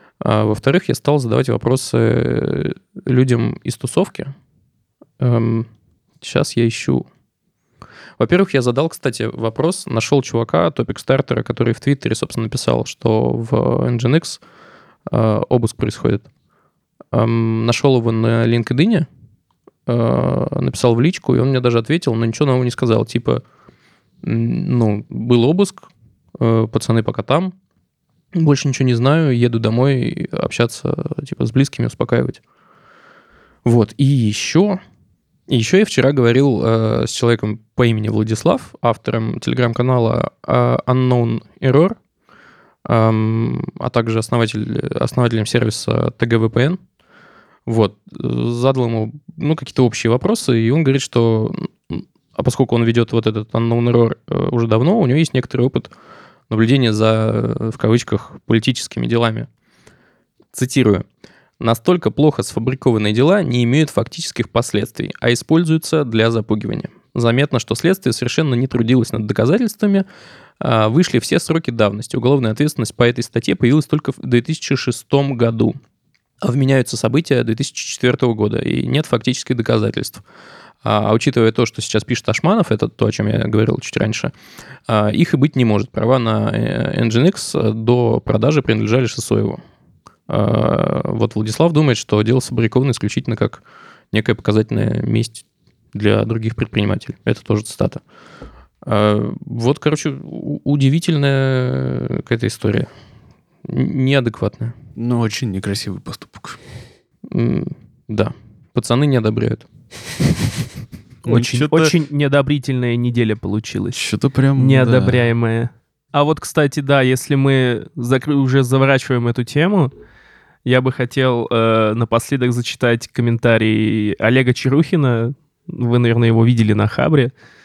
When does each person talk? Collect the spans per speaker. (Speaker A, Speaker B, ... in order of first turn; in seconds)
Speaker A: 0.2-4.3, 5.2-5.7, 6.2-7.0, 8.2-14.4, 15.1-16.3, 17.1-19.1, 19.9-23.4, 24.2-27.5, 28.3-32.4, 33.6-34.8, 35.5-42.0, 42.8-46.8, 47.7-55.9, 56.5-59.5, 60.5-61.0, 61.6-70.0, 70.6-75.8, 76.4-80.2, 80.8-84.3, 84.9-89.6, 90.3-98.0, 98.8-102.9, 103.6-104.7, 107.3-109.7
Speaker B: 105.0-106.6, 111.2-111.9, 113.9-115.3
Speaker C: 111.2-114.0, 114.5-119.9, 120.6-127.3